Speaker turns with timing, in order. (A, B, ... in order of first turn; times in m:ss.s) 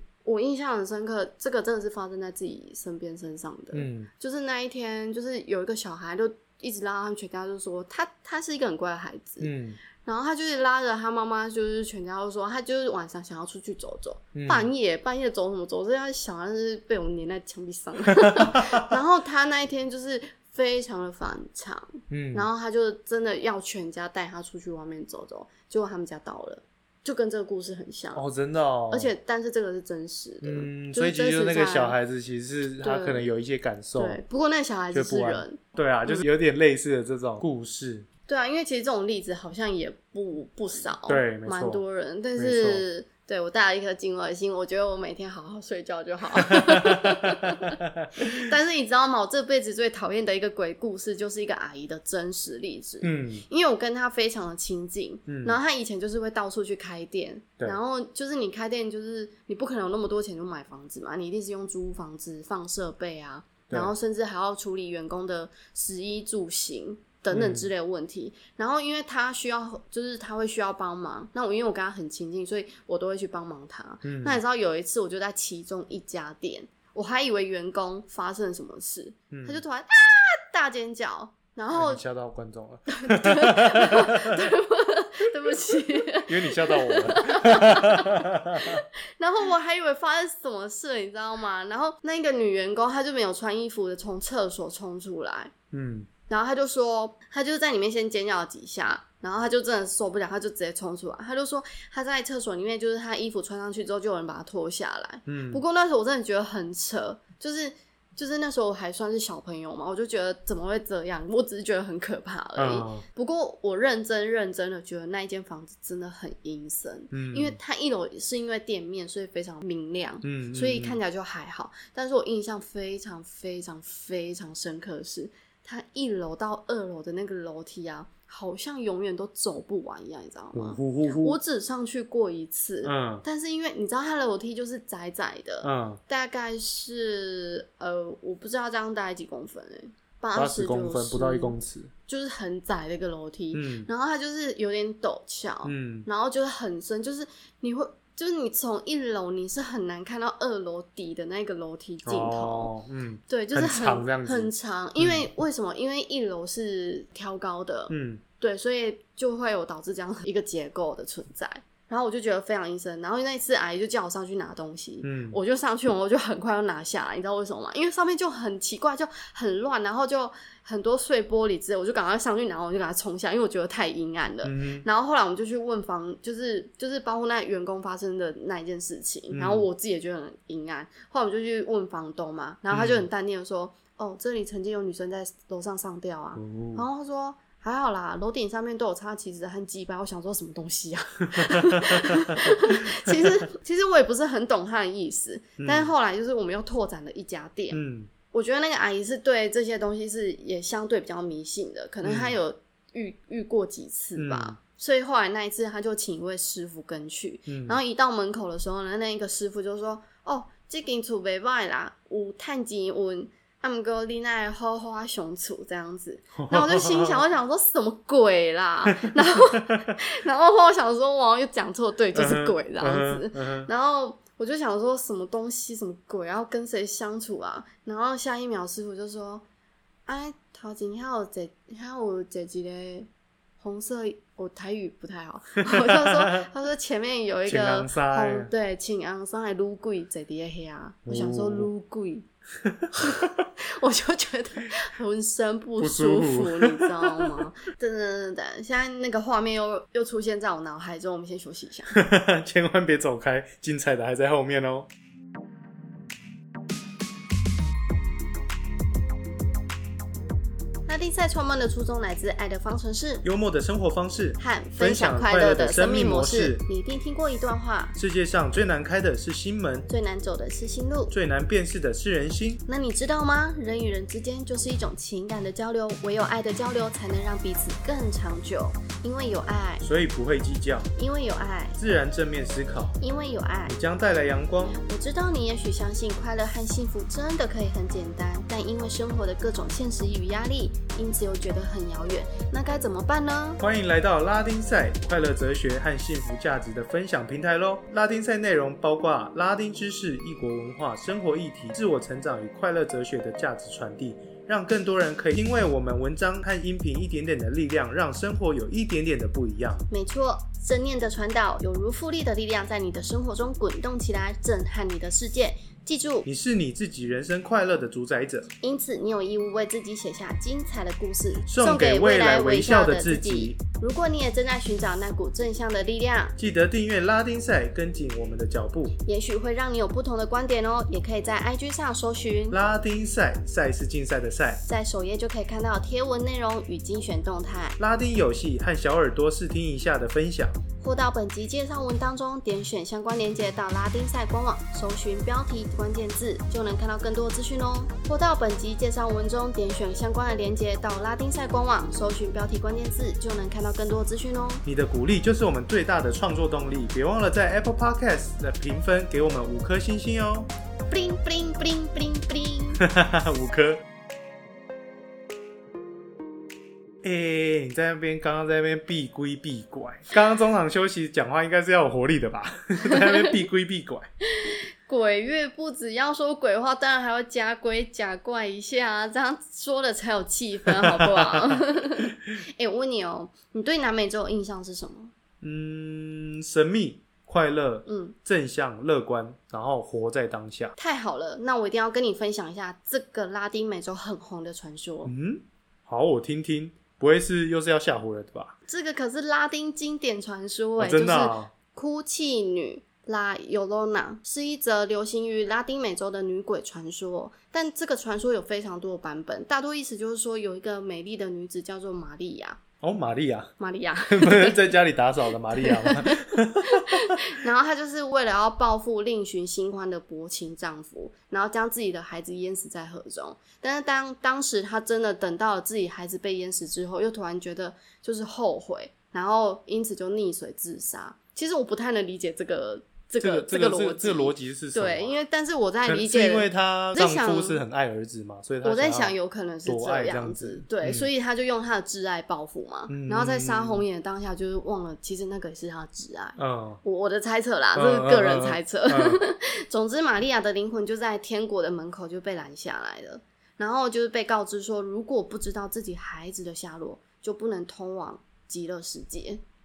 0:00.2-0:09.5 A
0:03.7-0:04.1 B
0:09.4-0:09.8 B
0:10.0-0:28.2 A
0:14.4-0:14.7 B
0:18.2-0:18.8 B
0:22.1-0:22.5 B
0:28.1-0:29.1 B
0:28.9-0:32.0 A
0:30.4-0:34.2 B
0:32.8-0:33.2 A
0:34.0-0:36.2 A
0:34.9-0:38.1 B
0:38.3-1:22.0 A
0:41.1-0:41.8 B
0:42.4-0:42.8 B
0:46.5-0:48.4 B
0:53.0-0:53.4 B
0:55.3-0:55.6 B
1:07.3-1:07.7 B
1:14.0-1:14.4 B
1:19.3-1:19.6 B
1:21.7-1:24.4 B
1:22.9-1:35.5 A
1:26.2-1:28.8 B
1:35.7-1:36.1 B
1:36.3-2:21.6 A
1:45.3-1:45.6 B
1:52.6-1:53.0 B
1:57.1-1:57.6 B
2:00.2-2:01.0 B
2:10.6-2:11.4 B
2:12.8-2:13.2 B
2:15.6-2:16.0 B
2:20.4-2:21.9 B
2:22.1-2:32.7 A
2:23.5-2:23.9 B
2:25.6-2:26.1 B
2:32.1-2:35.3 B
2:33.3-3:17.8 A
2:37.9-2:38.2 B
2:45.0-2:45.4 B
2:54.4-2:54.9 B
2:59.3-2:59.7 B
3:02.7-3:03.1 B
3:06.4-3:06.8 B
3:11.4-3:13.3 B
3:15.6-3:15.9 B
3:17.7-3:18.1 B
3:18.3-3:49.4 A
3:22.0-3:22.4 B
3:24.2-3:24.6 B
3:27.5-3:27.8 B
3:36.4-3:37.2 B
3:38.9-3:39.9 B
3:42.1-3:43.7 B
3:50.1-3:53.1 A
3:53.6-4:02.3 A
3:55.7-3:56.5 B
3:57.5-3:58.5 B
4:01.1-4:01.7 B
4:02.6-4:03.4 B
4:02.9-4:12.0 A
4:05.8-4:07.4 B
4:11.9-4:14.9 B
4:20.9-4:23.2 A
4:23.2-4:26.6 B
4:24.4-4:28.0 A
4:28.0-4:29.9 B
4:29.9-4:31.1 A
4:31.1-4:32.6 B
4:32.7-4:39.8 A
4:39.8-4:40.9 B
4:41.0-4:41.8 A
4:41.8-4:43.0 B
4:43.0-4:43.8 A
4:43.7-4:44.8 B
4:44.7-4:53.6 A
4:53.6-5:09.9 B
5:09.9-5:16.3 A
5:16.2-5:18.5 B
5:18.6-5:26.4 A
5:21.5-5:23.6 B
5:26.4-5:29.0 B
5:29.0-5:32.6 A
5:32.5-5:34.6 B
5:34.6-5:37.8 A
5:37.8-5:40.6 B
5:40.8-5:54.6 A
5:54.6-6:00.5 B
6:00.9-6:02.8 A
6:02.8-6:03.8 B
6:07.0-6:14.1 B
6:12.8-6:13.3 A
6:14.3-6:25.1 A
6:20.7-6:21.6 B
6:25.4-6:30.7 B
6:27.9-6:28.2 A
6:30.8-6:35.1 A
6:35.0-6:38.6 B
6:38.7-6:52.6 A
6:40.8-6:41.5 B
6:52.8-6:53.5 B
6:53.6-6:54.6 A
6:54.1-6:57.2 B
6:55.6-7:17.6 A
7:13.2-7:15.2 B
7:15.8-7:19.1 B
7:18.6-7:39.4 A
7:19.6-7:21.1 B
7:22.9-7:23.8 B
7:26.4-7:26.8 B
7:27.8-7:29.2 B